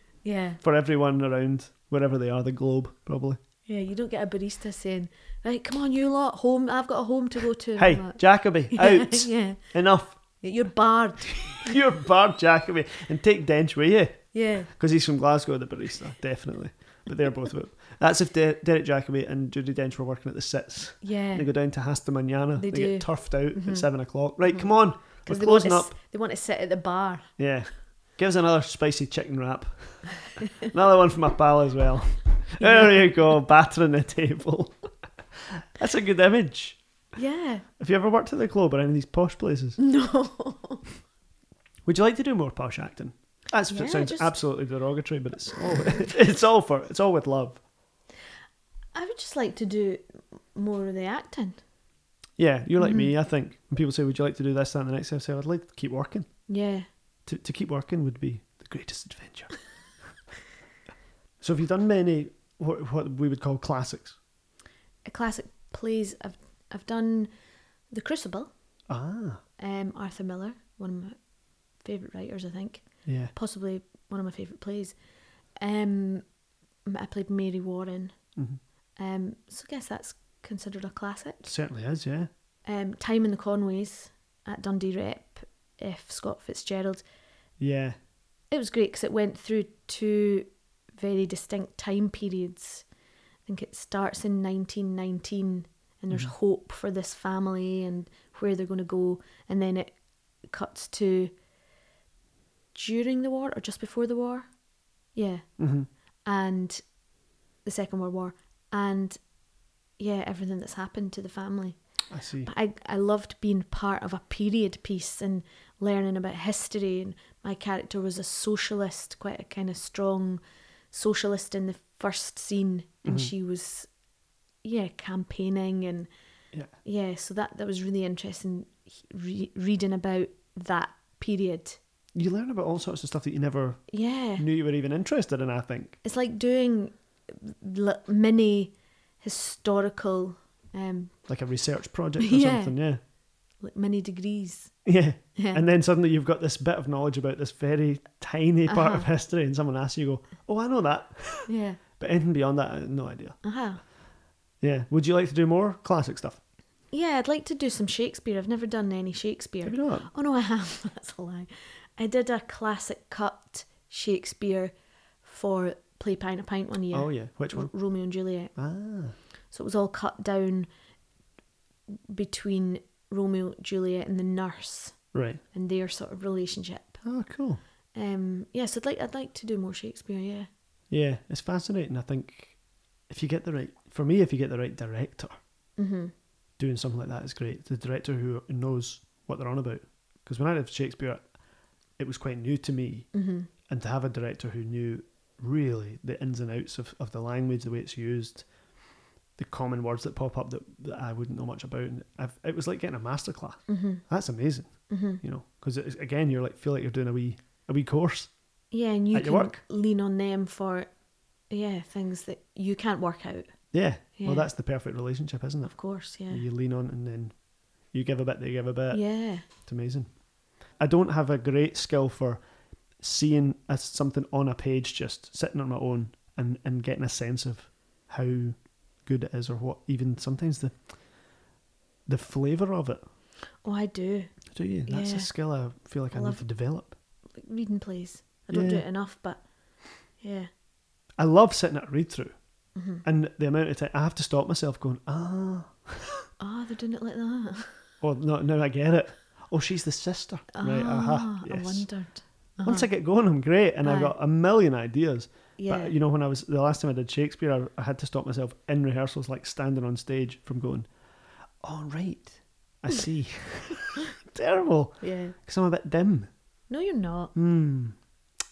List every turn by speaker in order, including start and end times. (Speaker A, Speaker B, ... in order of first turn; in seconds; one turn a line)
Speaker A: 0.2-0.6
Speaker B: 0.6-3.4
Speaker A: 3.7-9.6
Speaker B: 7.8-10.2
Speaker A: 10.4-11.8
Speaker B: 11.5-25.9
Speaker A: 14.3-14.7
Speaker A: 21.0-21.5
Speaker A: 22.6-23.9
Speaker A: 24.5-27.3
Speaker B: 27.4-36.8
Speaker A: 32.6-33.3
Speaker A: 37.1-37.7
Speaker B: 37.8-39.8
Speaker A: 39.8-40.9
Speaker B: 41.9-47.6
Speaker A: 43.7-44.4
Speaker A: 48.9-50.0
Speaker A: 50.5-51.6
Speaker B: 52.4-56.3
Speaker A: 52.8-53.1
Speaker A: 56.5-56.9
Speaker B: 57.3-59.5
Speaker B: 61.4-64.2
Speaker A: 65.1-67.3
Speaker A: 67.9-68.5
Speaker B: 68.9-69.4
Speaker A: 69.6-71.2
Speaker A: 71.8-75.0
Speaker B: 73.1-73.3
Speaker A: 75.6-76.2
Speaker A: 76.9-78.2
Speaker A: 79.0-81.5
Speaker B: 81.4-82.3
Speaker A: 82.7-87.0
Speaker B: 87.6-88.0
Speaker A: 88.5-92.8
Speaker A: 93.5-100.0
Speaker A: 100.5-101.3
Speaker A: 102.7-104.5
Speaker A: 105.1-105.5
Speaker B: 105.6-105.9
Speaker A: 106.3-106.8
Speaker A: 107.7-109.2
Speaker A: 110.0-111.8
Speaker B: 112.1-112.5
Speaker A: 112.4-120.4
Speaker A: 120.9-123.9
Speaker B: 123.0-123.3
Speaker A: 124.6-126.1
Speaker A: 126.8-131.8
Speaker B: 132.2-136.0
Speaker A: 133.9-134.4
Speaker A: 136.0-141.2
Speaker B: 141.3-143.0
Speaker A: 142.2-142.8
Speaker A: 143.6-144.8
Speaker B: 144.8-153.4
Speaker A: 145.4-145.6
Speaker A: 148.7-149.1
Speaker A: 151.5-151.8
Speaker A: 153.4-153.8
Speaker B: 154.6-156.4
Speaker A: 156.9-168.5
Speaker B: 159.7-160.1
Speaker B: 166.9-167.7
Speaker B: 168.6-169.2
Speaker A: 169.5-170.7
Speaker A: 172.1-177.0
Speaker B: 175.1-175.4
Speaker B: 177.0-177.6
Speaker A: 177.9-180.5
Speaker B: 180.9-182.6
Speaker B: 183.1-185.3
Speaker A: 185.8-186.1
Speaker B: 186.6-191.3
Speaker B: 192.0-193.1
Speaker A: 193.1-193.5
Speaker B: 193.7-198.5
Speaker B: 199.4-208.3
Speaker A: 203.7-204.0
Speaker A: 204.9-205.2
Speaker A: 208.7-210.9
Speaker B: 209.1-209.6
Speaker A: 211.5-213.5
Speaker B: 213.7-217.4
Speaker A: 214.2-214.5
Speaker A: 215.7-216.4
Speaker B: 217.9-220.1
Speaker A: 218.9-219.4
Speaker B: 220.8-222.4
Speaker B: 223.0-230.8
Speaker B: 232.1-233.0
Speaker A: 233.6-234.3
Speaker B: 234.5-236.9
Speaker A: 234.9-235.3
Speaker A: 236.1-236.4
Speaker A: 237.4-239.4
Speaker B: 238.5-238.8
Speaker A: 240.2-240.5
Speaker B: 241.2-242.4
Speaker A: 242.8-243.0
Speaker B: 243.0-246.2
Speaker A: 246.4-247.8
Speaker B: 248.0-251.9
Speaker A: 250.5-252.9
Speaker B: 252.6-260.9
Speaker A: 253.8-254.1
Speaker A: 255.6-255.9
Speaker B: 261.6-266.3
Speaker A: 265.0-265.4
Speaker A: 266.7-267.3
Speaker B: 267.4-268.0